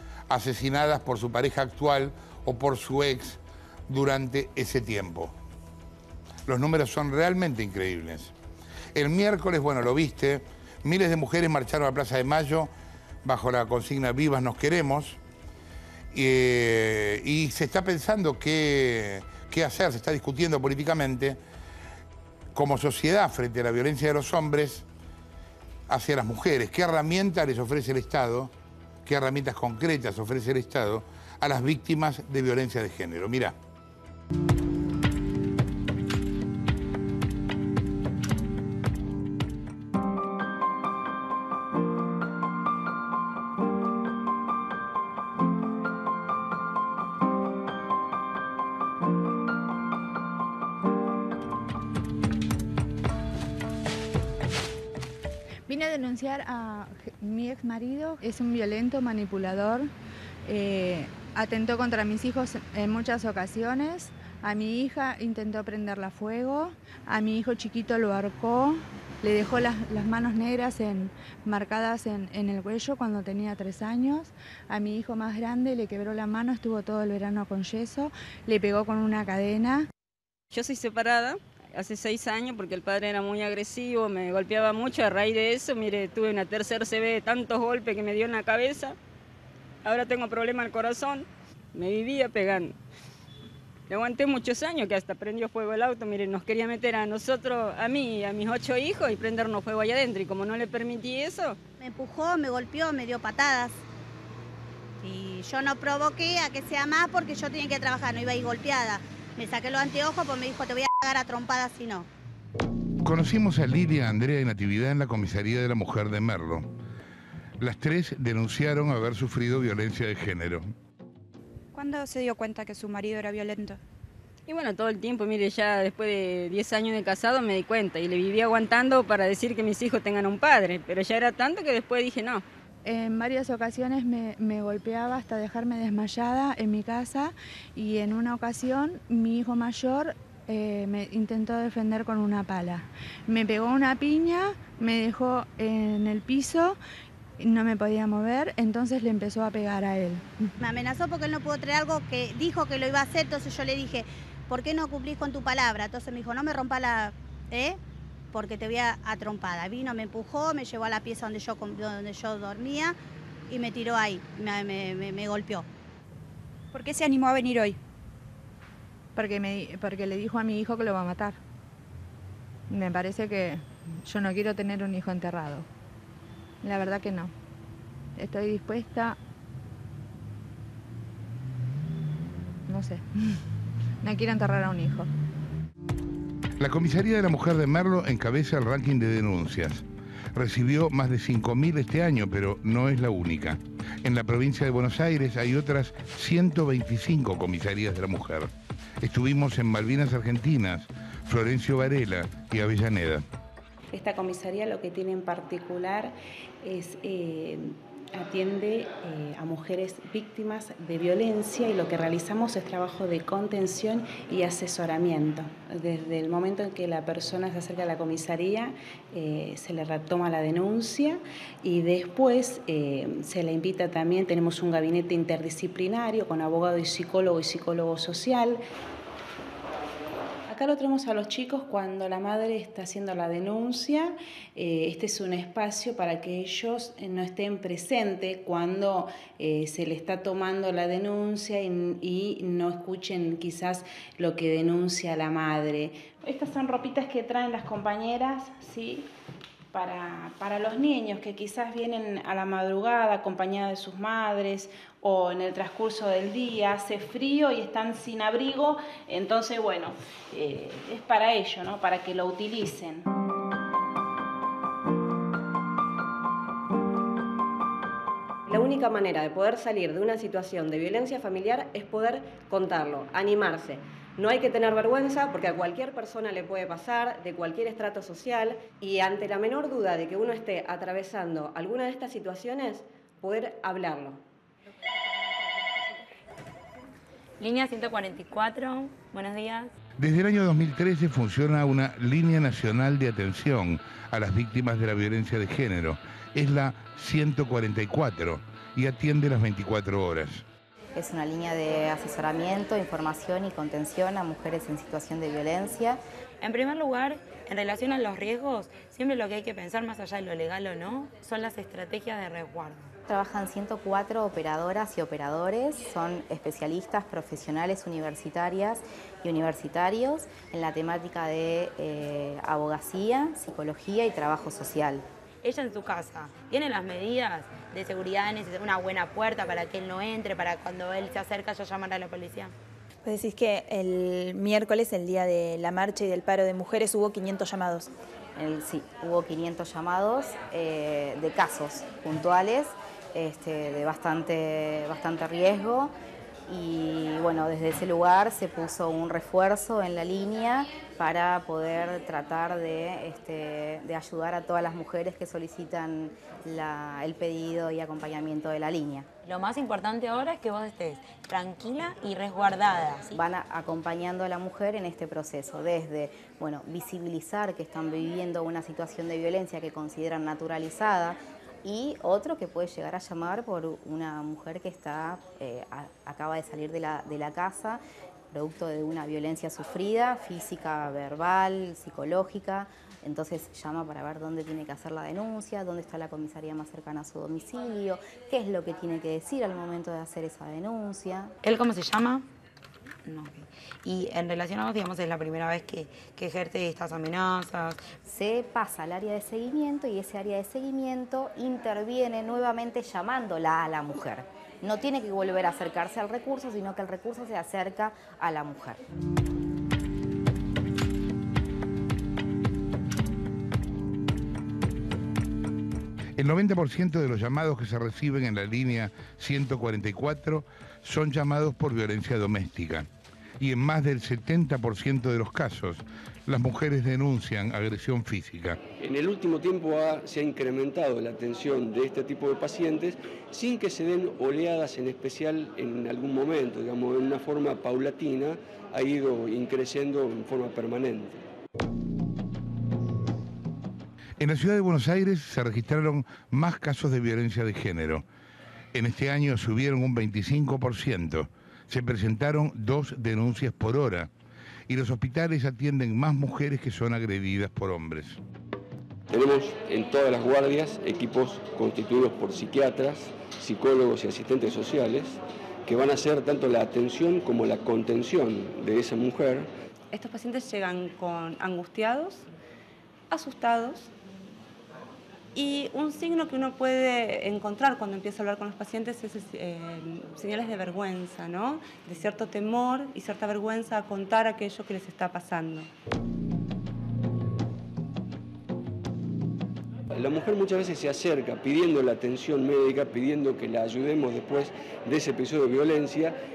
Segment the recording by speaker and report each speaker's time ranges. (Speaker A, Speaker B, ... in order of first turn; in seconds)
Speaker A: 0.3-5.3, 6.5-8.3, 8.9-12.7, 13.2-15.2, 16.1-21.4, 22.5-24.9, 25.9-28.5, 29.0-33.5, 113.0-116.7, 117.6-120.7, 186.6-203.2, 290.0-300.4, 416.2-422.9, 423.4-428.6, 444.2-448.0, 448.7-454.1, 454.7-458.2
Speaker B: 55.6-59.9, 60.4-79.9, 132.8-146.8, 147.4-150.5, 169.1-171.4, 172.7-175.7, 176.6-177.3, 178.2-179.2, 182.7-183.4, 184.0-185.1
Speaker C: 80.5-89.0, 89.8-92.7, 93.9-101.6, 124.5-132.4
Speaker D: 101.8-103.8, 105.0-112.1, 150.6-157.8, 158.3-162.9, 163.5-165.6
Speaker E: 121.7-123.7, 166.7-167.8
Speaker F: 121.7-123.8, 469.9-472.3, 473.1-473.9, 475.3-485.7
Speaker G: 203.9-228.6, 230.5-249.1, 249.7-263.1
Speaker H: 268.5-284.2
Speaker I: 287.4-289.7, 306.4-312.9, 325.4-332.5, 359.2-363.2, 391.4-392.2, 393.1-397.9
Speaker J: 300.9-306.0, 313.1-325.0, 338.4-345.9, 346.5-359.1, 363.1-377.8, 378.3-391.3, 398.0-408.8
Speaker K: 333.0-337.9
Speaker L: 428.8-441.2, 459.1-469.5, 489.9-496.1